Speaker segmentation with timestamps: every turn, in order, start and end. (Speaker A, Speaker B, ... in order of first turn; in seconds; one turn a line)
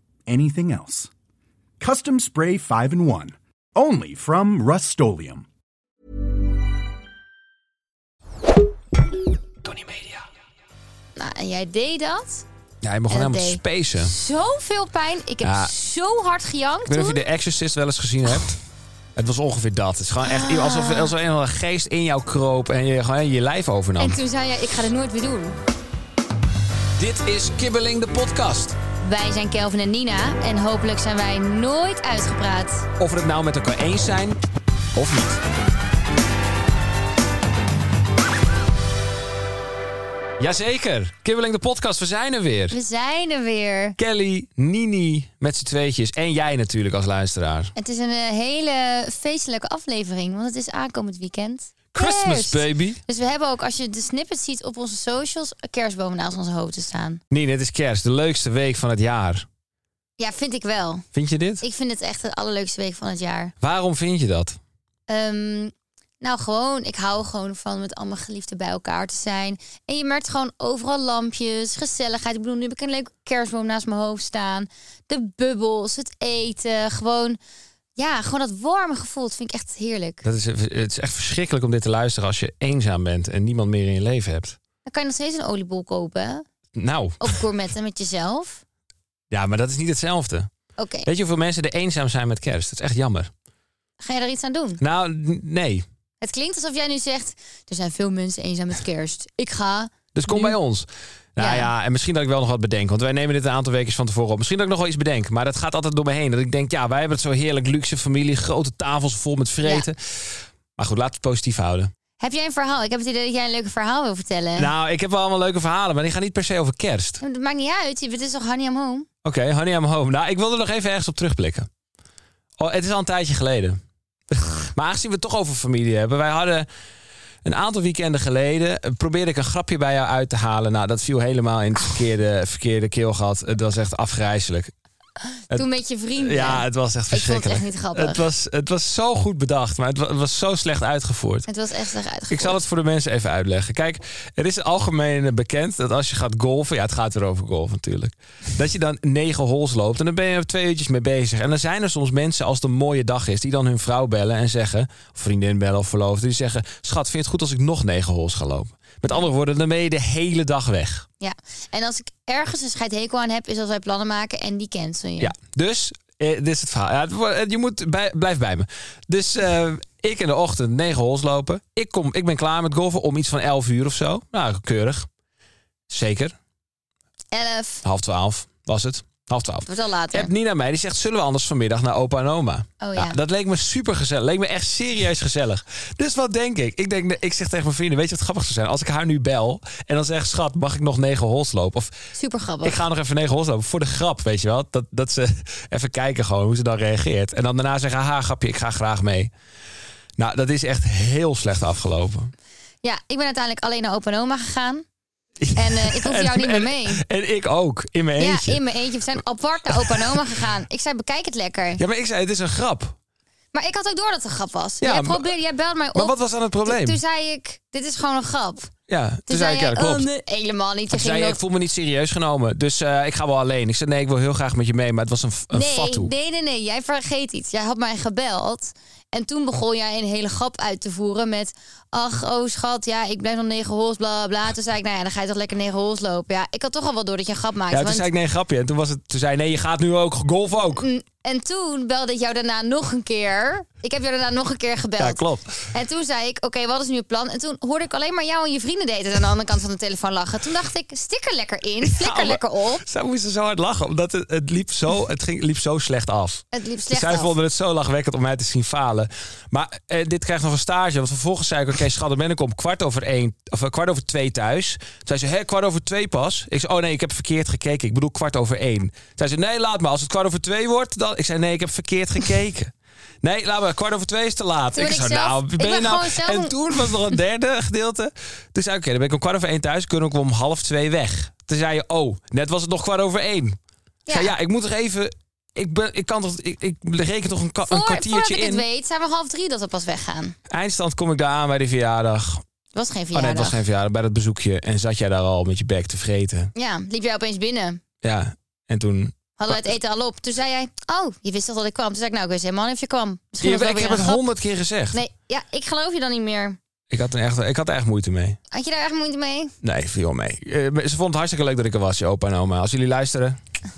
Speaker A: 0.3-1.1
Speaker A: 1.8-5.5
Speaker B: 9.7-10.2
Speaker C: 11.2-12.5
Speaker B: 12.8-14.1
Speaker C: 13.1-17.2
Speaker B: 15.4-15.7
Speaker B: 16.9-18.6
Speaker B: 19.1-24.2
Speaker C: 20.2-21.1
Speaker C: 24.0-25.6
Speaker B: 27.0-28.8
Speaker C: 29.0-32.9
Speaker B: 33.0-34.4
Speaker B: 34.9-35.4
Speaker B: 40.4-42.8
Speaker C: 42.7-44.0
Speaker B: 44.0-47.7
Speaker C: 47.8-57.2
Speaker B: 51.9-53.0
Speaker B: 57.3-59.5
Speaker C: 60.2-61.1
Speaker B: 61.1-61.6
Speaker C: 61.6-63.5
Speaker B: 63.6-64.6
Speaker C: 65.1-77.4
Speaker C: 78.0-80.2
Speaker B: 80.2-84.6
Speaker C: 84.9-86.5
Speaker B: 86.8-87.4
Speaker C: 87.2-88.6
Speaker B: 89.3-90.5
Speaker C: 90.8-91.1
Speaker B: 91.1-93.3
Speaker C: 94.0-94.8
Speaker B: 94.8-95.9
Speaker C: 96.2-100.6
Speaker B: 100.2-111.9
Speaker C: 101.4-101.7
Speaker C: 112.2-114.7
Speaker B: 114.6-117.2
Speaker C: 117.2-119.1
Speaker B: 119.2-121.7
Speaker B: 122.6-123.8
Speaker B: 124.3-126.7
Speaker B: 127.4-134.7
Speaker C: 135.5-138.2
Speaker B: 136.2-141.5
Speaker C: 141.5-142.6
Speaker B: 142.3-161.1
Speaker C: 161.2-165.3
Speaker B: 165.2-175.1
Speaker B: 175.9-176.4
Speaker C: 177.3-177.8
Speaker B: 177.8-192.0
Speaker C: 179.7-180.3
Speaker C: 182.8-183.2
Speaker C: 192.2-192.8
Speaker B: 192.6-199.3
Speaker B: 200.2-202.3
Speaker C: 202.8-204.8
Speaker B: 205.4-210.2
Speaker C: 205.5-207.0
Speaker C: 208.2-211.8
Speaker B: 211.8-213.0
Speaker C: 213.5-216.1
Speaker B: 214.8-215.3
Speaker B: 215.9-217.0
Speaker C: 216.7-218.7
Speaker B: 218.9-220.1
Speaker C: 219.3-221.4
Speaker B: 220.9-226.1
Speaker C: 225.5-238.1
Speaker B: 237.7-240.8
Speaker C: 240.7-252.8
Speaker B: 245.0-245.7
Speaker B: 251.8-283.6
Speaker C: 256.5-257.3
Speaker C: 274.7-277.1
Speaker C: 284.1-284.3
Speaker B: 284.1-288.6
Speaker C: 287.7-290.4
Speaker B: 290.5-292.4
Speaker C: 292.7-293.6
Speaker B: 293.1-296.5
Speaker C: 296.6-297.8
Speaker B: 298.0-299.7
Speaker C: 299.4-304.2
Speaker B: 303.4-305.0
Speaker C: 304.9-306.6
Speaker B: 306.9-308.4
Speaker C: 308.5-309.5
Speaker B: 309.6-313.4